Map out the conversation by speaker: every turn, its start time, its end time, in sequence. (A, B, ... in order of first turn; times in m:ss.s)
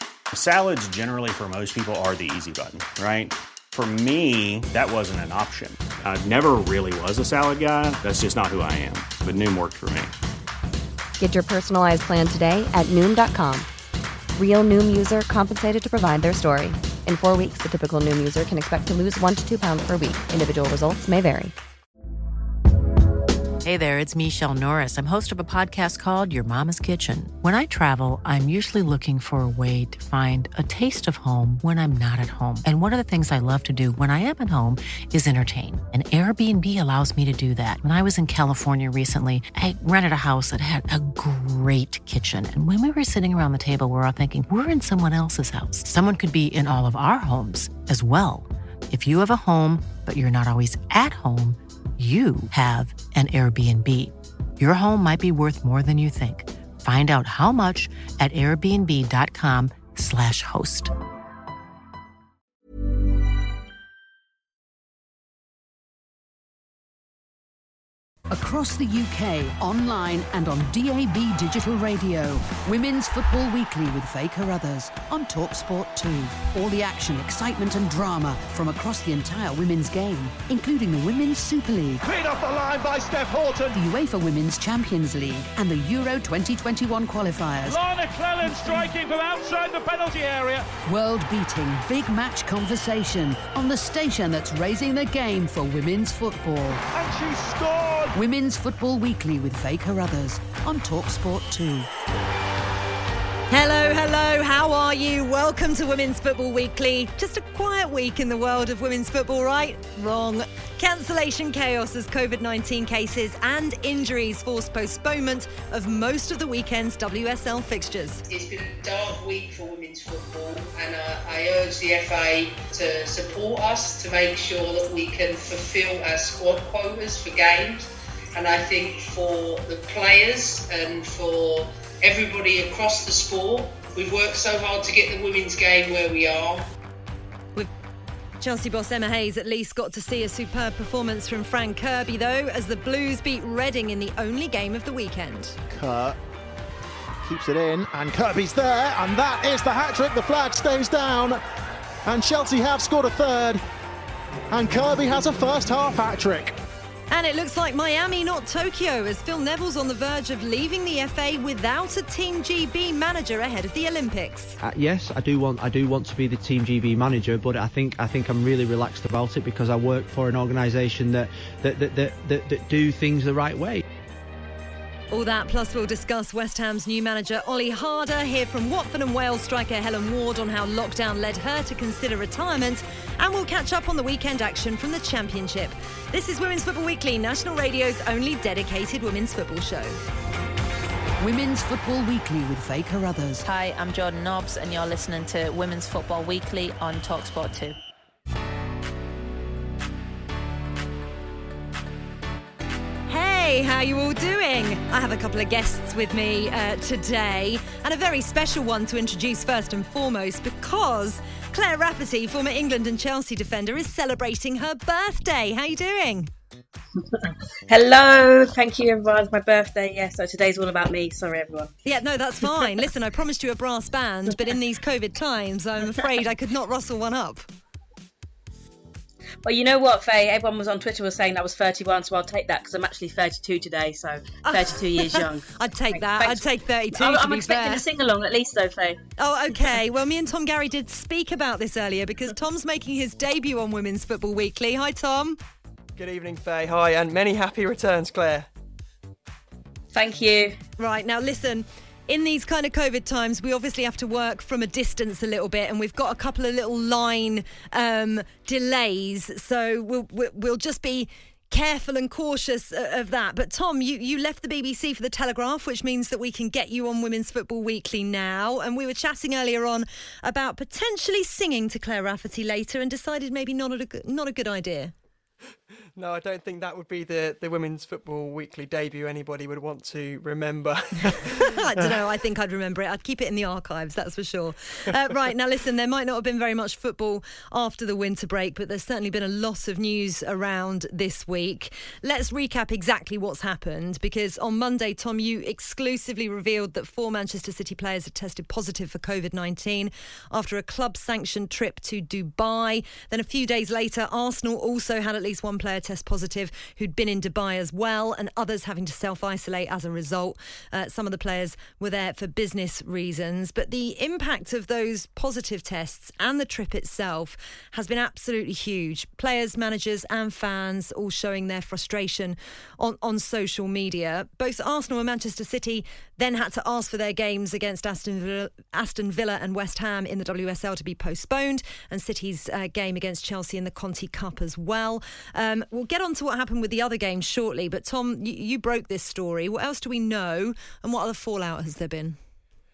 0:00.3-0:10.1 A
0:11.2-0:13.7 B
0:14.3-0:21.6 B
0:23.6-1:00.9 C
1:08.3-1:22.0 D
1:22.0-1:23.8 E
1:23.7-1:27.8 D
1:27.6-1:30.7 E
1:28.4-1:28.8 D
1:30.8-1:36.8 D
1:36.9-1:38.1 E
1:38.1-1:41.9 D
1:43.5-1:58.2 F
1:58.3-2:16.7 G
2:18.4-2:25.6 F
2:25.7-2:26.2 H
2:27.2-2:31.4 H
2:32.0-2:33.6 H
2:34.5-2:36.5 H
2:37.1-2:44.6 F
2:44.6-2:53.8 I
2:55.1-3:10.0 F
3:11.2-3:13.4 D
3:13.4-3:17.8 J
3:23.1-3:36.3 F
3:37.7-3:41.7 K
3:41.8-3:47.5 F
3:49.4-3:59.0 K
3:54.4-3:57.8 F
3:59.2-4:05.4 F
4:06.0-4:08.5 L
4:09.9-4:10.6 K
4:10.8-4:34.9 F
4:36.0-4:42.0 L
4:41.4-5:42.2 F